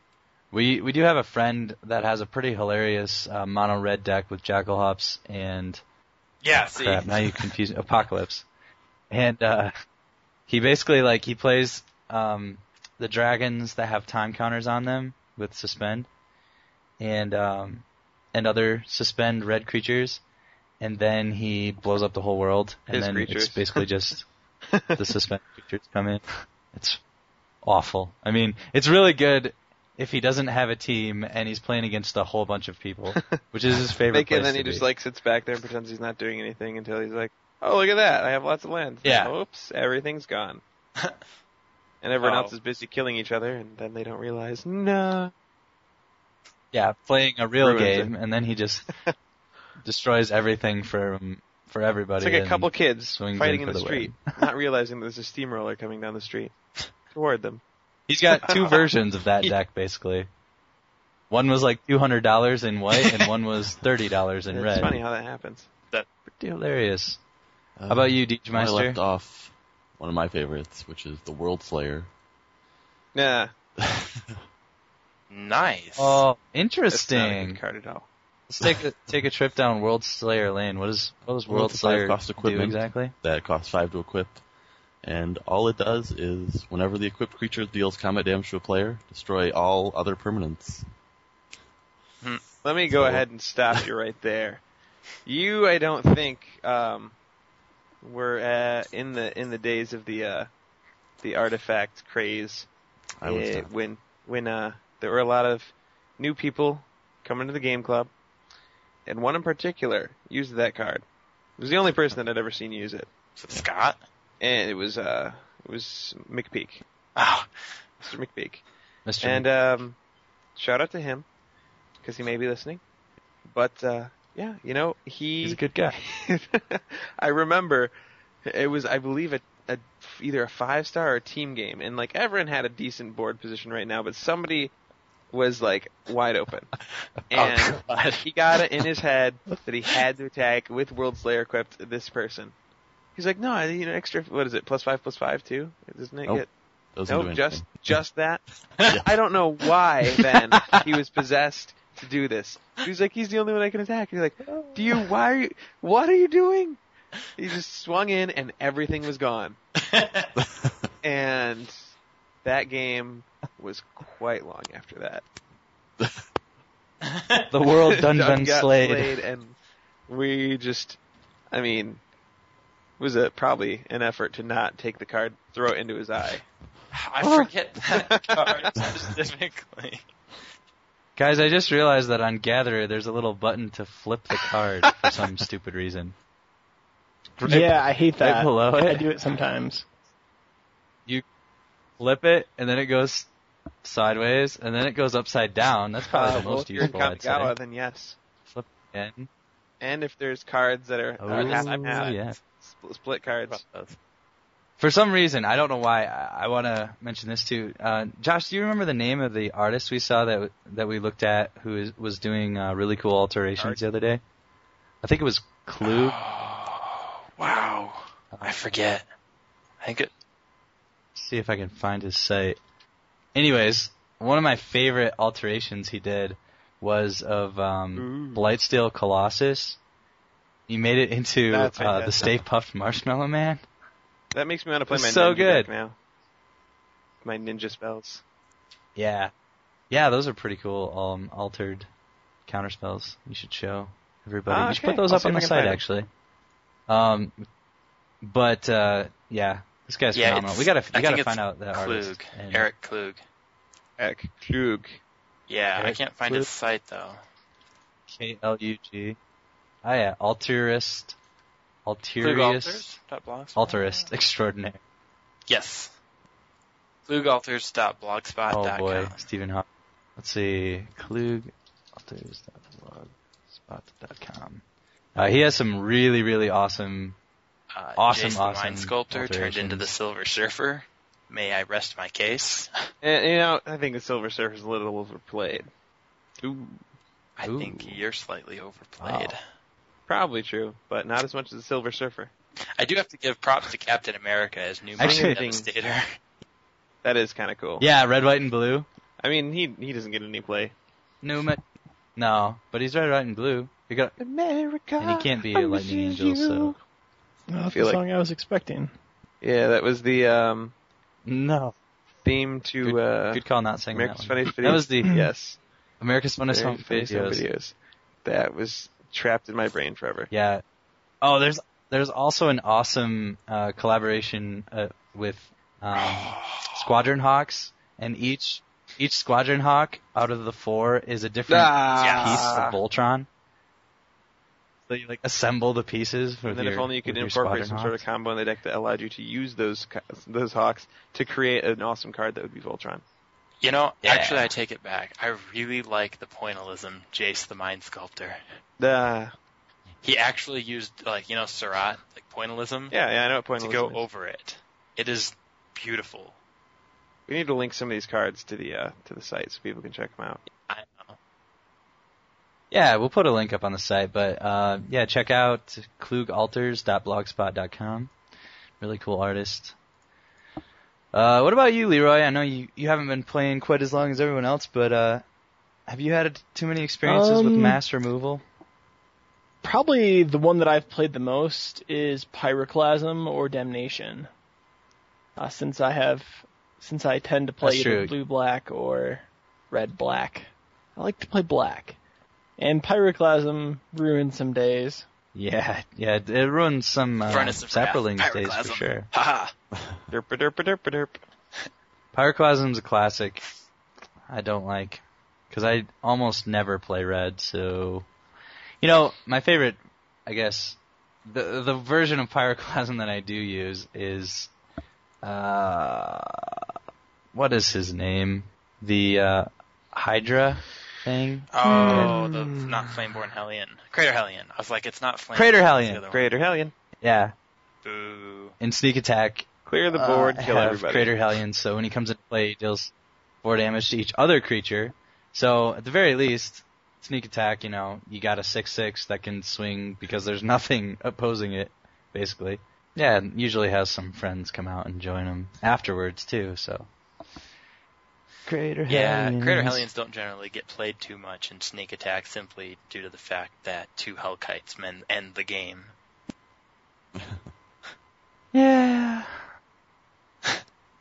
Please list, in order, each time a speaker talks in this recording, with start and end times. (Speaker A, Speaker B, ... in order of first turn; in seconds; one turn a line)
Speaker A: 0.5-5.8
Speaker B: 6.4-7.5
Speaker A: 6.7-8.4
Speaker A: 9.1-9.7
Speaker A: 10.5-16.1
Speaker A: 17.0-20.2
Speaker A: 20.8-24.3
Speaker C: 22.9-23.8
Speaker C: 24.7-25.0
Speaker A: 24.9-27.0
Speaker A: 27.6-34.9
Speaker C: 34.1-40.6
Speaker A: 39.0-39.3
Speaker C: 42.0-45.3
Speaker B: 42.2-42.5
Speaker A: 46.7-48.9
Speaker C: 47.6-48.1
Speaker C: 48.9-49.1
Speaker A: 49.8-54.3
Speaker C: 52.2-56.5
Speaker C: 57.1-57.6
Speaker A: 58.1-60.3
Speaker C: 58.3-58.9
Speaker A: 61.3-65.0
Speaker C: 64.5-65.7
Speaker A: 66.3-67.2
Speaker D: 67.8-72.1
Speaker A: 67.9-69.0
Speaker C: 73.1-73.5
Speaker D: 73.8-74.4
Speaker B: 75.3-76.2
Speaker A: 76.0-77.6
Speaker C: 76.9-78.1
Speaker A: 78.5-83.1
Speaker D: 81.5-84.4
Speaker D: 85.0-90.8
Speaker C: 92.6-94.6
Speaker D: 92.9-93.2
Speaker C: 95.2-97.1
Speaker C: 98.0-100.5
Speaker C: 101.2-102.7
Speaker D: 103.2-103.7
Speaker C: 103.2-108.1
Speaker C: 109.0-111.0
Speaker C: 111.6-113.1
Speaker B: 113.3-114.0
Speaker C: 114.4-116.8
Speaker B: 117.2-117.7
Speaker C: 118.0-118.6
Speaker A: 119.0-119.5
Speaker C: 119.2-120.0
Speaker C: 120.5-121.2
Speaker C: 122.0-122.8
Speaker C: 123.5-127.9
Speaker A: 125.4-126.0
Speaker C: 128.4-134.7
Speaker C: 135.3-136.7
Speaker C: 137.3-142.5
Speaker B: 137.3-138.6
Speaker C: 143.2-146.5
Speaker D: 146.2-147.7
Speaker C: 147.1-148.4
Speaker D: 148.9-149.1
Speaker C: 149.0-156.8
Speaker A: 154.5-154.8
Speaker C: 157.3-159.6
Speaker B: 159.8-160.3
Speaker D: 160.4-160.9
Speaker C: 161.0-161.8
Speaker C: 162.4-165.2
Speaker B: 167.0-167.5
Speaker A: 167.5-169.2
Speaker C: 167.9-169.6
Speaker C: 170.1-171.0
Speaker C: 171.5-172.0
Speaker C: 173.0-176.4
Speaker B: 176.9-180.0
Speaker C: 177.3-178.7
Speaker A: 181.2-186.1
Speaker A: 187.4-189.1
Speaker E: 187.4-189.8
Speaker A: 192.0-193.3
Speaker A: 193.8-197.5
Speaker C: 196.1-198.2
Speaker A: 198.5-199.3
Speaker C: 199.8-203.6
Speaker A: 201.2-202.4
Speaker B: 201.3-202.3
Speaker B: 203.2-204.0
Speaker A: 204.8-214.2
Speaker C: 213.6-213.8
Speaker A: 215.0-216.2
Speaker B: 215.8-219.0
Speaker A: 218.3-218.6
Speaker B: 219.8-220.1
Speaker A: 221.2-222.6
Speaker A: 223.3-229.8
Speaker C: 227.9-228.5
Speaker A: 230.7-233.6
Speaker C: 231.5-232.4
Speaker C: 234.3-235.9
Speaker A: 234.9-235.7
Speaker C: 237.2-238.2
Speaker A: 238.9-239.3
Speaker A: 239.9-241.9
Speaker A: 242.5-246.1
Speaker C: 244.5-245.8
Speaker A: 246.9-247.4
Speaker A: 248.2-252.7
Speaker B: 250.1-253.2
Speaker C: 254.0-255.0
Speaker B: 255.5-257.2
Speaker A: 255.8-256.5
Speaker A: 258.1-259.2
Speaker A: 259.8-261.1
Speaker A: 261.9-262.9
Speaker B: 262.2-264.1
Speaker A: 263.6-264.8
Speaker B: 265.5-265.9
Speaker B: 267.1-269.2
Speaker A: 268.5-269.6
Speaker A: 270.2-274.6
Speaker A: 275.1-277.2
Speaker B: 277.7-282.7
Speaker A: 278.0-279.9
Speaker C: 283.0-285.7
Speaker C: 286.4-286.8
Speaker B: 287.4-289.4
Speaker A: 287.4-288.0
Speaker A: 289.0-289.4
Speaker C: 290.1-292.3
Speaker B: 292.8-296.1
Speaker A: 295.0-295.4
Speaker C: 295.0-295.7
Speaker C: 297.0-297.8
Speaker A: 297.8-298.9
Speaker C: 299.2-300.7
Speaker A: 301.2-301.6
Speaker A: 302.1-304.1
Speaker C: 304.2-306.8
Speaker A: 305.0-306.8
Speaker E: 307.5-308.9
Speaker C: 307.7-308.0
Speaker C: 309.4-310.7
Speaker A: 311.2-311.7
Speaker C: 312.2-315.6
Speaker A: 312.8-315.1
Speaker A: 316.0-317.4
Speaker C: 316.5-320.3
Speaker A: 320.3-320.6
Speaker A: 321.2-333.3
Speaker B: 325.9-326.9
Speaker C: 331.5-332.8
Speaker B: 331.9-332.6
Speaker A: 334.9-338.0
Speaker C: 336.4-343.0
Speaker B: 343.6-348.4
Speaker A: 344.0-344.5
Speaker C: 348.8-349.3
Speaker B: 350.0-353.0
Speaker C: 352.9-354.0
Speaker B: 353.6-356.4
Speaker C: 357.3-360.4
Speaker B: 360.7-361.2
Speaker A: 362.7-368.1
Speaker A: 368.8-369.7
Speaker A: 371.1-375.2
Speaker A: 375.9-378.4
Speaker E: 377.0-377.8
Speaker E: 379.6-384.3
Speaker E: 385.4-392.0
Speaker A: 387.6-388.1
Speaker E: 392.6-395.1
Speaker A: 395.3-399.1
Speaker B: 397.2-399.5
Speaker D: 399.8-400.0
Speaker C: 400.1-401.2
Speaker A: 402.1-403.4
Speaker A: 404.3-408.1
Speaker A: 408.8-414.5
Speaker A: 415.2-416.6
Speaker A: 417.3-422.1
Speaker B: 421.5-426.3
Speaker C: 421.6-422.9
Speaker A: 425.3-426.0
Speaker C: 426.1-426.7
Speaker A: 427.0-427.3
Speaker B: 427.8-428.5
Speaker A: 428.6-432.9
Speaker C: 429.6-431.2
Speaker A: 433.4-446.9
Speaker A: 448.4-449.8
Speaker B: 448.9-455.9
Speaker D: 457.1-457.5
Speaker A: 458.5-459.4